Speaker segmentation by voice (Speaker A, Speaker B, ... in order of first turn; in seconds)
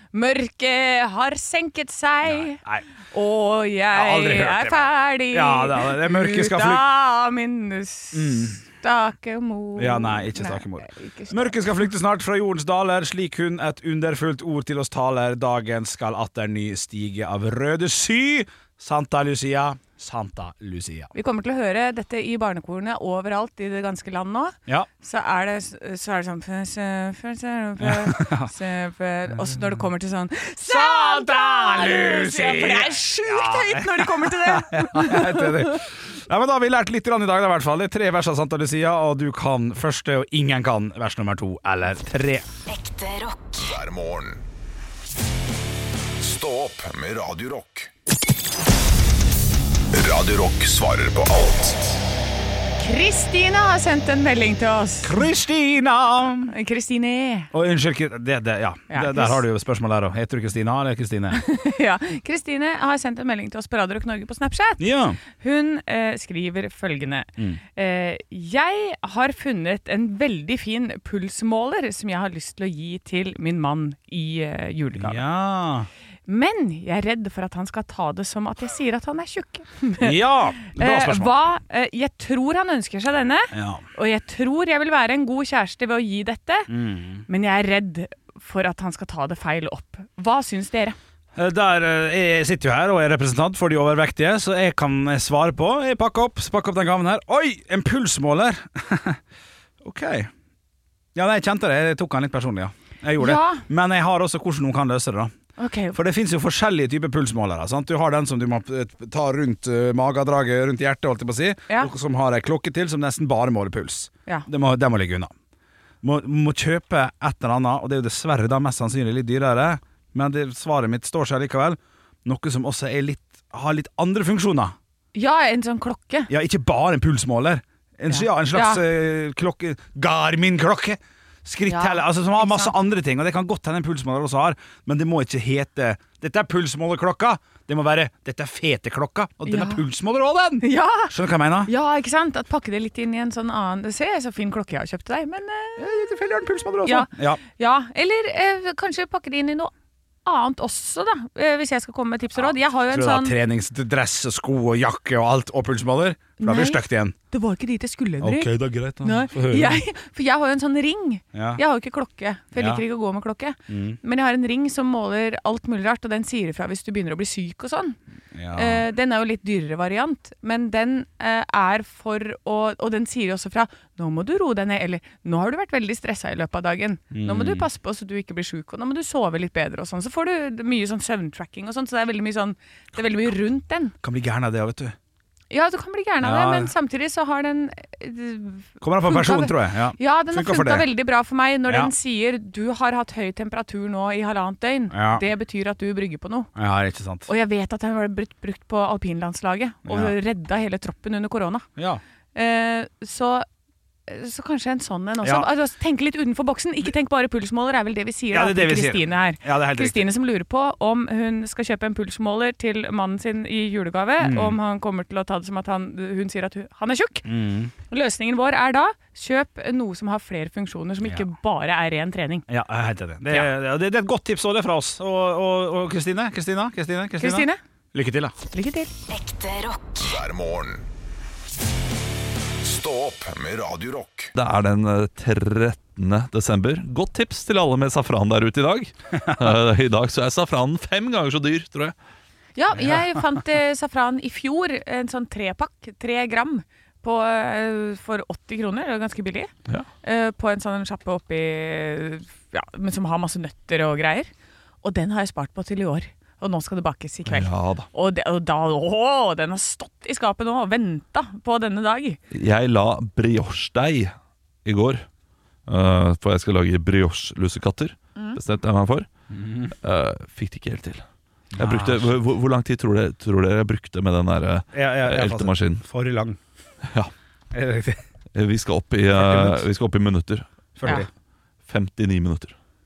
Speaker A: 0.1-11.8, 21.1-35.8, 52.8-55.2, 56.5-57.5, 58.9-59.4, 61.3-75.2, 76.3-86.7, 87.3-91.0, 103.2-103.7, 105.6-106.0, 125.1-126.3, 128.1-128.8, 131.7-132.7, 139.5-139.8, 140.6-141.1, 141.6-145.8, 146.8-149.7, 150.2-153.4, 156.4-158.5, 159.0-168.0, 168.5-183.9, 185.5-196.5, 197.3-201.7, 202.3-203.4, 204.1-217.3, 217.9-222.4, 227.2-227.6, 228.5-228.9, 242.6-249.5, 250.0-254.3, 254.8-262.2
Speaker B: 2.2-2.9, 3.9-6.8, 8.1-8.6, 9.8-21.1, 27.8-28.5, 30.6-42.5, 55.0-56.5, 57.5-61.4, 64.8-65.2, 75.0-75.9, 80.0-81.3, 83.5-83.8, 86.7-87.2, 91.3-99.2, 99.8-100.3, 101.1-105.3, 105.9-115.3, 116.0-124.7, 126.3-141.7, 145.8-147.4, 152.3-157.1, 158.2-159.8, 161.3-161.6, 162.6-162.8, 163.7-164.0, 168.3-168.8, 177.1-177.7, 184.0-184.9, 186.2-186.7, 188.8-190.9, 194.9-195.2, 196.5-197.3, 199.8-200.1, 201.8-202.0, 205.2-205.5, 208.3-210.1, 214.2-214.6, 217.2-217.7, 222.5-228.3, 269.3-269.7, 271.5-272.2, 274.7-276.4, 277.5-278.0, 279.1-279.6, 280.8-281.1
Speaker C: 42.8-44.5, 46.1-47.9, 49.9-52.0, 229.1-230.9, 232.6-234.3
Speaker D: 234.3-241.9, 257.3-257.9, 262.3-264.1, 264.6-265.0, 265.7-269.1, 269.8-271.0, 271.6-275.8, 278.3-280.5, 281.7-282.5